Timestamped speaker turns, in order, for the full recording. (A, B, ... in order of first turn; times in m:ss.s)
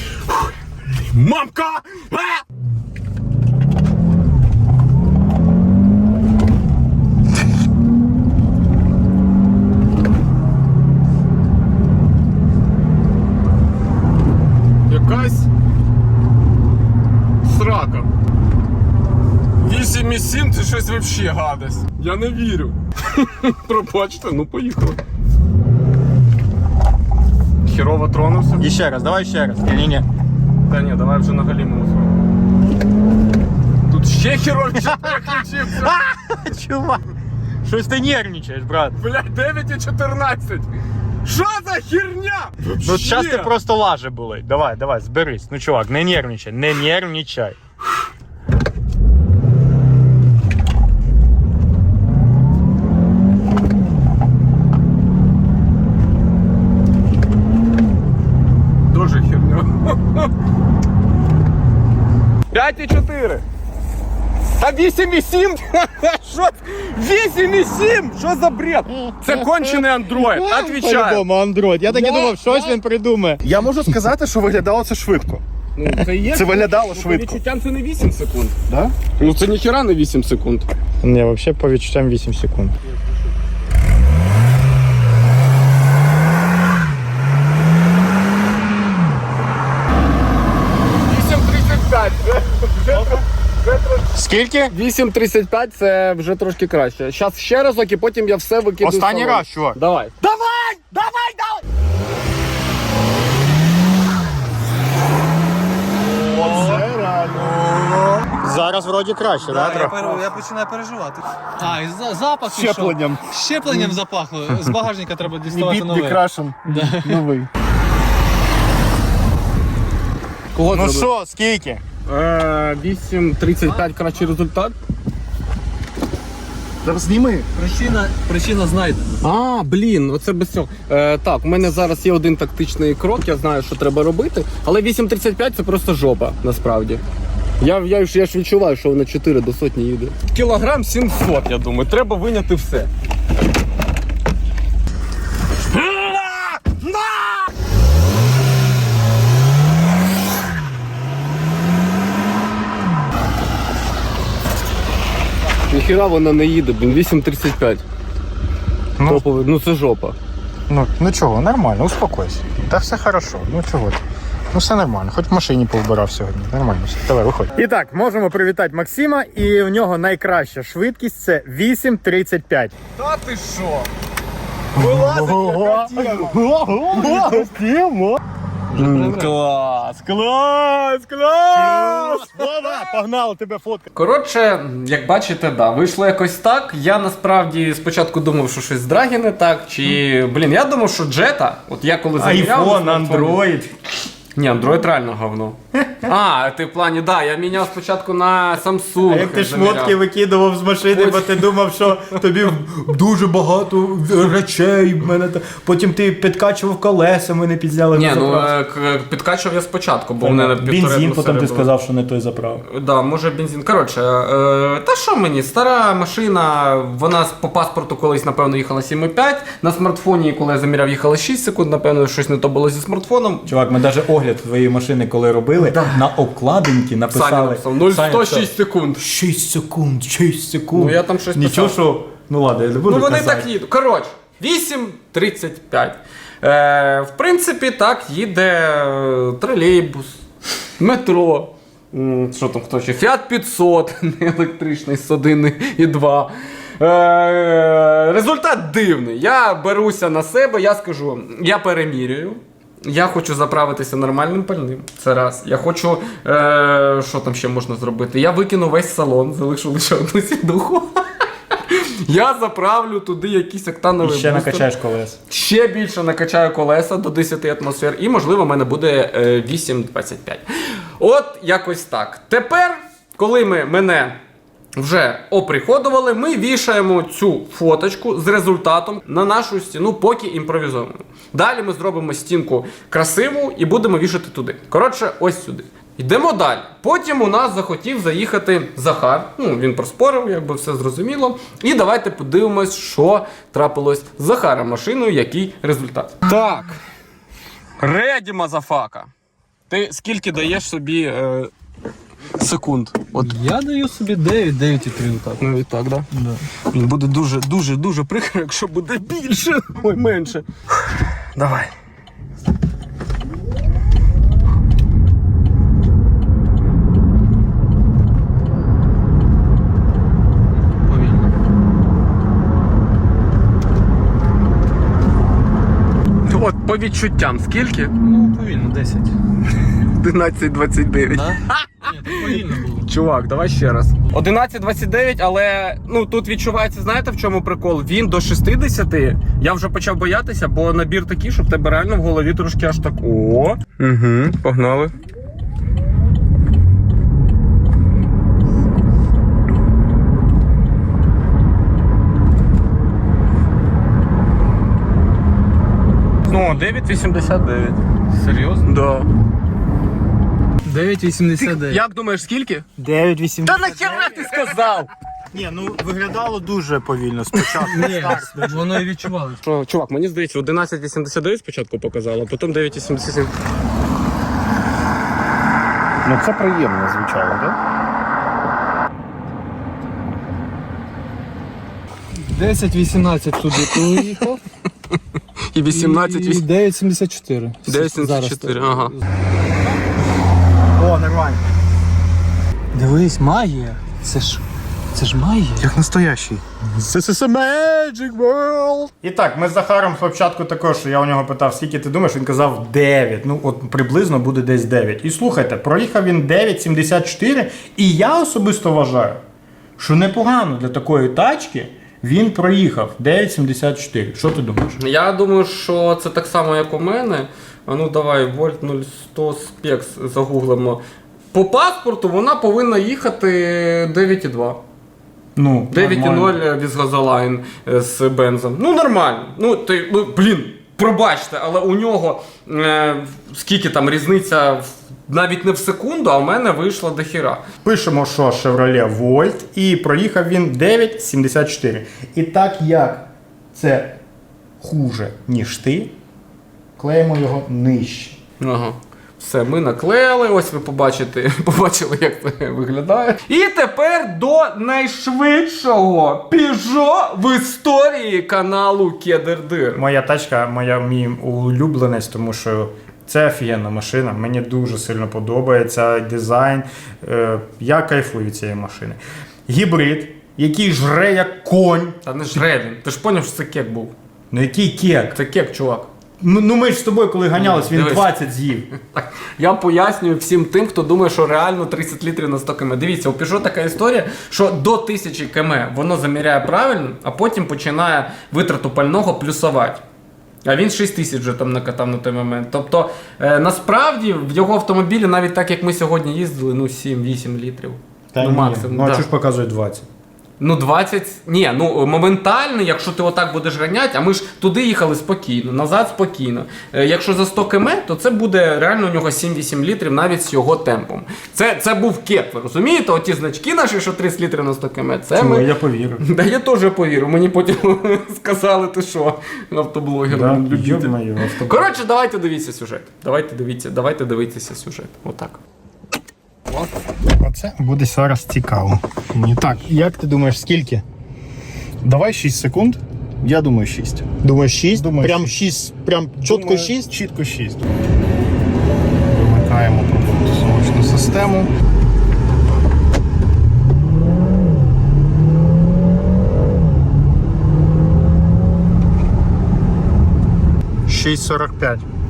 0:00.3-0:02.4 A
0:14.9-0:15.5 A
0:17.4-0:18.1 A
0:19.6-0:25.0 A
0:27.6-0:28.7 A
0:28.6-0:30.1 B
0:30.6-0:32.1 A
0:33.9-0:36.0 A
0:35.7-0:37.0 B
0:37.6-0:39.0 B
0:39.0-0:40.7 A
0:41.2-0:43.5 A
0:42.8-0:47.6 B
0:58.9-1:00.3 A
1:02.5-1:03.4 A
1:04.5-1:11.2 A
1:08.9-1:13.4 B
1:11.9-1:12.8 A
1:13.4-1:15.4 C
1:15.8-1:18.6 A
1:16.3-1:17.4 C
1:18.7-1:19.0 C
1:19.1-1:20.7 A
1:21.0-1:22.8 B
1:31.0-1:34.1 A
1:34.1-1:34.7 B
1:34.7-1:40.3 A
1:38.8-1:39.8 B
1:40.3-1:41.4 B
1:46.2-1:48.3 C
1:46.4-1:46.8 B
1:48.3-1:50.3 B
1:49.4-1:57.2 D
1:52.5-1:53.2 C
1:55.5-1:56.9 B
1:56.7-1:57.5 C
2:00.7-2:01.8 B
2:00.8-2:01.0 A
2:02.0-2:04.8 A
2:06.8-2:07.5 C
2:07.5-2:09.2 D
2:09.2-2:17.0 A
2:17.6-2:22.9 A
2:25.7-2:27.5 A
2:35.7-2:37.8 A
2:39.0-2:40.2 A
2:40.7-2:44.0 B
2:44.5-2:52.8 B
2:53.0-2:53.9 A
2:54.7-2:56.4 A
2:54.8-2:58.2 B
2:55.8-2:57.5 C
2:57.0-2:57.4 A
2:58.7-2:59.4 B
2:58.8-3:02.5 A
3:01.5-3:03.9 B
3:03.9-3:13.4 A
3:12.2-3:13.8 B
3:14.3-3:20.0 A
3:15.8-3:16.1 B
3:19.0-3:28.5 B
3:20.9-3:21.5 A
3:27.9-3:31.7 A
3:30.2-3:32.6 B
3:32.7-3:43.5 A
3:43.4-3:53.5 B
3:45.6-3:46.0 A
3:47.1-3:49.0 A
3:50.7-3:51.8 A
3:52.9-4:00.2 A
4:00.8-4:24.7 A
4:24.0-4:25.2 B
4:25.3-4:34.2 A
4:34.8-4:56.8 A
4:57.8-4:59.1 A
4:59.7-5:01.5 A
5:02.3-5:03.4 A
5:03.2-5:05.4 D
5:05.4-5:06.1 A
5:06.1-5:06.4 D
5:06.7-5:10.4 A
5:11.4-5:11.7 A
5:20.8-5:21.3 D
5:26.2-5:27.9 A
5:28.0-5:29.1 D
5:29.8-5:44.9 A
5:31.1-5:32.9 D
5:56.3-5:57.8 A
5:58.1-5:58.6 D
5:58.6-5:59.1 A
6:00.6-6:01.8 D
6:01.4-6:02.6 A
6:02.8-6:04.5 B
6:03.4-6:04.9 A
6:05.3-6:08.6 B
6:07.5-6:09.4 D
6:07.8-6:08.5 A
6:09.4-6:13.3 A
6:16.0-6:17.5 B
6:22.1-6:24.4 D
6:23.7-6:24.1 A
6:25.5-6:26.4 A
6:25.7-6:29.0 D
6:27.6-6:28.9 A
6:30.8-6:31.4 B
6:32.7-6:35.7 D
6:35.6-6:36.6 B
6:36.8-6:38.8 C
6:38.9-6:49.2 B
6:49.8-6:54.7 B
6:54.8-7:00.8 A
7:01.3-7:04.6 A
7:05.4-7:06.4 B
7:05.7-7:17.4 A
7:17.6-7:24.0 B
7:24.6-7:25.9 B
7:26.8-7:28.2 B
7:28.4-7:39.8 A
7:39.8-7:52.4 B
7:52.0-7:53.9 A
7:54.3-7:55.2 B
7:55.1-7:55.9 A
7:56.2-7:58.7 B
7:57.3-7:58.2 A
7:58.8-8:09.8 A
8:10.4-8:19.0 A
8:18.1-8:19.9 B
8:20.4-8:35.5 A
8:35.1-8:36.0 B
8:36.0-8:45.4 A
8:40.1-8:41.8 B
8:47.2-8:48.8 B
8:49.1-8:49.7 C
8:49.5-8:50.8 B
8:51.8-8:54.0 C
8:54.2-8:56.9 B
8:54.8-8:55.3 C
8:56.2-8:57.6 C
8:59.0-9:01.5 C
9:10.9-9:11.8 B